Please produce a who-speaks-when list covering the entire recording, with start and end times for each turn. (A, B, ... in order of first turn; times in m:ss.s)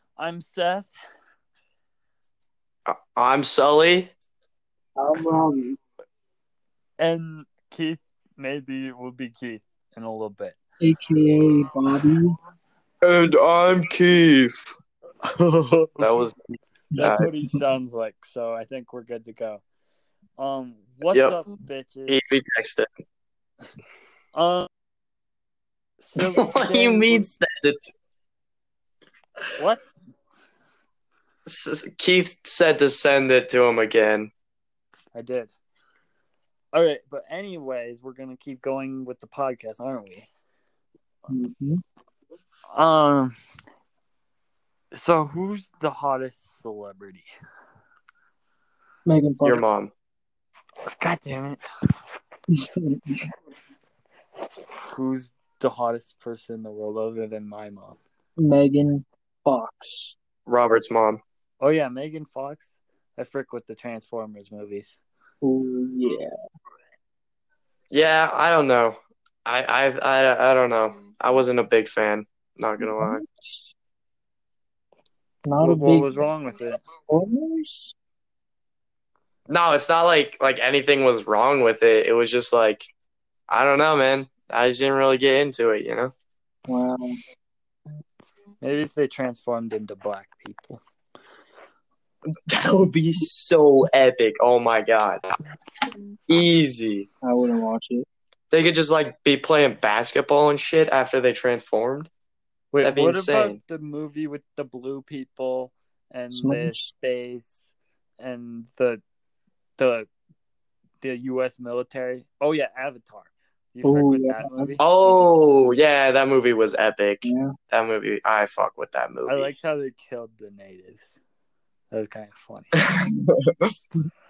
0:00.2-0:00.9 A
0:02.9-0:04.1 B
0:05.0-0:05.8 C
0:07.0-0:10.6 A
0:10.8-0:12.4 C
0:13.0-0:14.7 B
0:15.3-0:16.2 A
0:16.0-0:16.4 B
0:16.9-0:17.3 C
0:17.0-0:19.6 A
0:17.0-0:17.3 B
0:20.4-0:22.2 A
0:21.1-0:21.4 B
0:22.1-0:22.9 B
0:24.4-0:24.7 A
0:26.0-0:27.3 A
0:26.2-0:27.9 B
0:29.6-0:29.8 A
0:31.5-0:34.3 B
0:35.2-0:35.5 A
0:36.7-0:40.3 A
0:41.3-0:41.8 C
0:42.7-0:43.4 A
0:44.9-0:47.3 A
0:49.1-0:49.6 C
0:49.4-0:49.9 B
0:50.8-0:51.6 A
0:52.7-0:53.2 C
0:54.9-0:58.0 A
0:58.4-1:00.2 C
1:00.5-1:01.2 B
1:01.6-1:05.0 A
1:05.4-1:06.3 C
1:07.9-1:13.2 B
1:12.8-1:13.7 C
1:15.4-1:16.2 C
1:15.6-1:16.8 A
1:17.1-1:17.9 C
1:19.5-1:22.9 B
1:23.5-1:26.1 B
1:26.7-1:27.2 C
1:28.6-1:30.8 A
1:32.5-1:35.3 B
1:36.3-1:37.1 B
1:37.2-1:38.0 C
1:38.5-1:42.1 B
1:42.7-1:47.7 A
1:42.8-1:43.6 B
1:46.3-1:46.9 C
1:48.2-1:49.0 A
1:49.8-1:50.1 A
1:51.0-1:54.8 A
1:53.8-1:54.8 C
1:54.8-1:59.5 B
1:57.2-1:57.5 C
1:59.3-2:01.2 A
2:01.9-2:02.8 A
2:02.8-2:03.4 B